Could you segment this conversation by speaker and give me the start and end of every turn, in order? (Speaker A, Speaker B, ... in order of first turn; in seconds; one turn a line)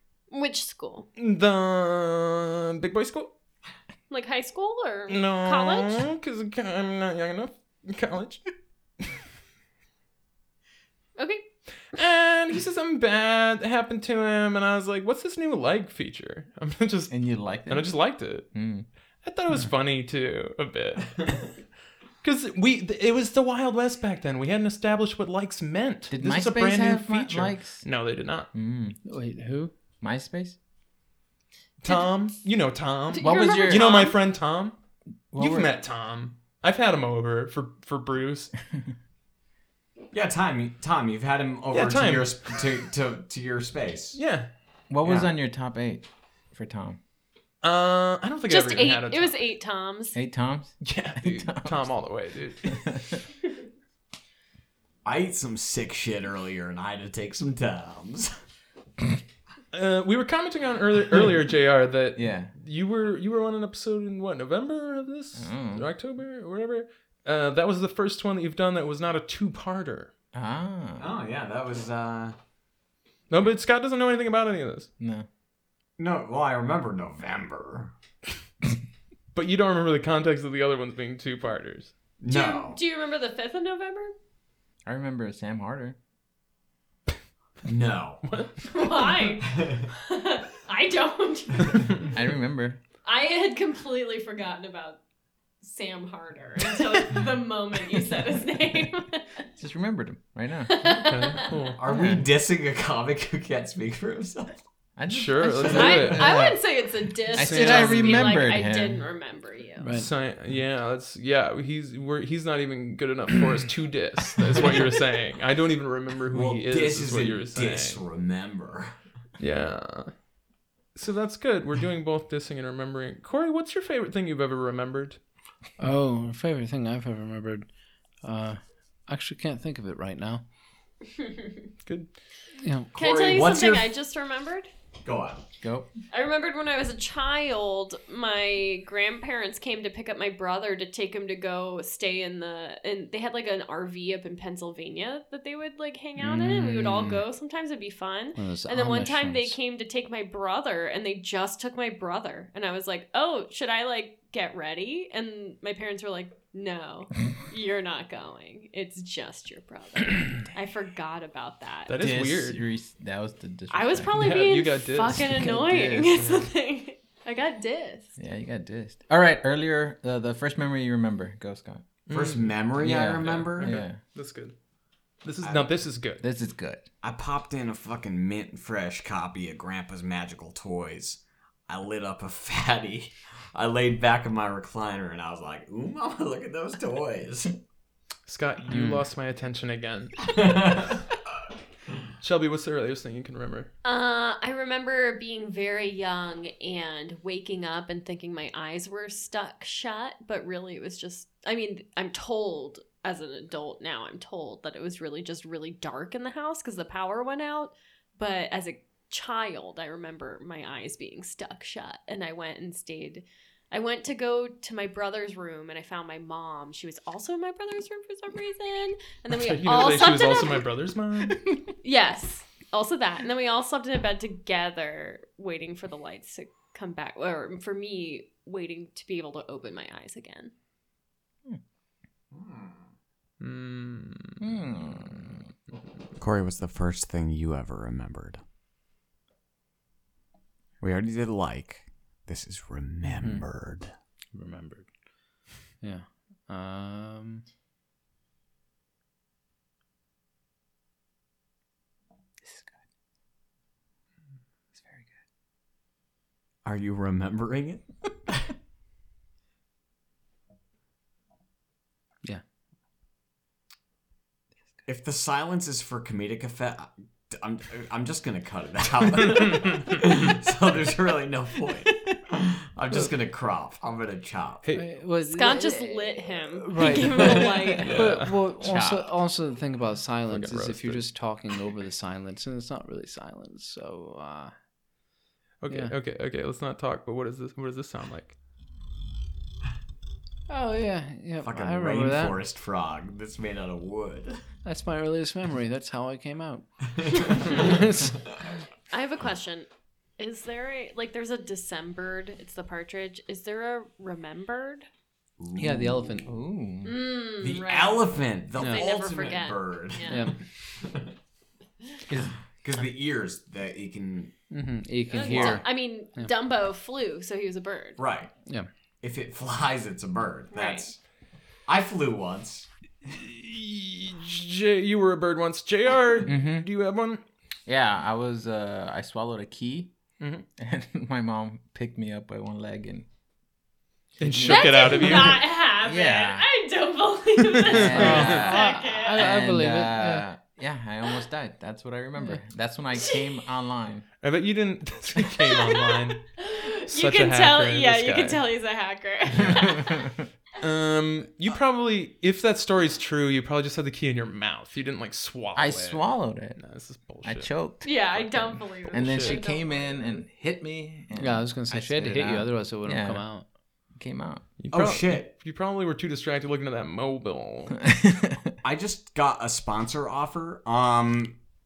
Speaker A: 0.3-1.1
Speaker B: 1.2-3.3
Speaker A: 4.1-6.0
Speaker B: 5.1-8.4
Speaker A: 11.2-11.4
Speaker B: 11.9-18.5
Speaker C: 17.1-18.0
Speaker C: 18.5-18.9
Speaker B: 19.2-21.4
Speaker B: 22.2-28.5
Speaker C: 26.1-27.8
Speaker C: 28.5-29.0
Speaker D: 29.0-29.7
Speaker C: 30.0-30.6
Speaker B: 31.8-34.8
Speaker A: 33.1-34.1
Speaker C: 33.2-34.0
Speaker C: 35.3-35.8
Speaker B: 35.4-38.5
Speaker E: 40.1-44.2
Speaker B: 41.7-42.4
Speaker B: 44.1-44.5
Speaker C: 44.9-47.0
Speaker B: 47.6-49.4
Speaker A: 48.5-50.2
Speaker C: 50.1-51.9
Speaker B: 50.8-53.2
Speaker C: 52.7-53.2
Speaker E: 55.0-58.3
Speaker B: 59.7-70.1
Speaker C: 62.1-62.5
Speaker C: 65.3-65.9
Speaker C: 70.3-71.0
Speaker E: 71.0-72.3
Speaker B: 73.3-74.9
Speaker C: 75.0-75.2
Speaker E: 76.0-77.9
Speaker B: 79.3-81.9
Speaker E: 82.2-82.8
Speaker A: 82.3-84.1
Speaker C: 84.8-86.0
Speaker E: 87.6-88.2
Speaker B: 88.2-89.1
Speaker A: 88.6-92.1
Speaker E: 89.5-89.9
Speaker C: 92.1-92.8
Speaker A: 93.0-95.0
Speaker A: 95.6-99.4
Speaker C: 99.6-100.8
Speaker A: 100.7-101.7
Speaker B: 101.0-101.8
Speaker E: 101.8-104.6
Speaker C: 105.0-106.6
Speaker B: 105.1-106.4
Speaker A: 105.7-109.8
Speaker C: 107.3-109.0
Speaker B: 107.3-108.4
Speaker D: 109.8-110.1
Speaker B: 109.9-118.0
Speaker E: 116.3-119.0
Speaker B: 119.4-120.1
Speaker B: 120.9-125.2
Speaker D: 125.8-127.7
Speaker D: 128.2-130.4
Speaker B: 131.8-132.1
Speaker D: 132.6-132.9
Speaker E: 132.9-133.9
Speaker A: 132.9-134.7
Speaker E: 135.0-135.4
Speaker C: 135.6-135.9
Speaker A: 136.1-161.9
Speaker D: 146.2-147.2
Speaker D: 148.3-149.6
Speaker B: 161.9-162.6
Speaker C: 162.0-164.5
Speaker A: 163.7-168.1
Speaker B: 164.1-165.2
Speaker C: 165.0-166.3
Speaker C: 168.2-171.8
Speaker B: 172.1-174.5
Speaker E: 172.1-173.8
Speaker C: 172.8-174.0
Speaker B: 175.2-176.2
Speaker E: 175.4-175.7
Speaker C: 176.2-176.9
Speaker E: 177.0-187.5
Speaker B: 188.2-190.3
Speaker D: 188.7-189.0
Speaker E: 190.2-191.0
Speaker B: 192.2-193.7
Speaker A: 193.8-220.7
Speaker B: 219.3-221.5
Speaker A: 221.8-230.5
Speaker E: 232.3-232.8
Speaker B: 233.4-234.4
Speaker C: 234.4-235.4
Speaker E: 236.2-238.4
Speaker E: 240.8-243.9
Speaker D: 243.2-243.4
Speaker D: 244.3-244.9
Speaker D: 245.8-247.4
Speaker C: 252.4-252.8
Speaker C: 254.8-255.1
Speaker E: 256.6-258.3
Speaker E: 264.9-274.6
Speaker D: 274.7-284.5
Speaker A: 275.2-278.0
Speaker B: 276.9-278.4
Speaker C: 278.6-279.0
Speaker B: 280.3-281.1
Speaker B: 285.6-288.4
Speaker D: 290.5-292.4
Speaker E: 291.4-294.4
Speaker D: 294.6-296.6
Speaker E: 297.0-297.7
Speaker D: 297.5-298.1
Speaker A: 298.9-299.7
Speaker A: 300.2-304.9
Speaker E: 305.4-306.2
Speaker D: 305.6-306.3
Speaker C: 306.2-307.0
Speaker A: 306.8-310.3
Speaker E: 307.4-311.1
Speaker D: 308.6-308.9
Speaker D: 310.1-310.3
Speaker E: 312.5-314.3
Speaker D: 314.5-316.3
Speaker A: 315.1-318.0
Speaker E: 315.2-315.6
Speaker E: 318.0-318.3
Speaker E: 319.0-321.0
Speaker A: 320.5-320.9
Speaker E: 321.6-322.7
Speaker B: 323.1-327.2
Speaker C: 326.2-326.7
Speaker C: 327.6-329.9
Speaker B: 330.2-330.4
Speaker C: 330.6-333.1
Speaker C: 334.2-336.4
Speaker B: 334.2-335.4
Speaker A: 334.5-339.3
Speaker B: 337.6-338.4
Speaker C: 337.6-344.1
Speaker D: 337.9-340.2
Speaker A: 343.0-343.4
Speaker B: 344.2-346.2
Speaker A: 345.4-350.1
Speaker B: 346.9-348.4
Speaker C: 349.5-350.0
Speaker B: 350.6-357.5
Speaker C: 355.6-356.6
Speaker C: 357.2-363.3
Speaker A: 357.8-360.2
Speaker B: 358.9-359.4
Speaker D: 361.1-363.4
Speaker C: 363.9-364.5
Speaker B: 364.6-367.9
Speaker E: 364.7-365.3
Speaker C: 367.8-368.4
Speaker E: 368.6-371.4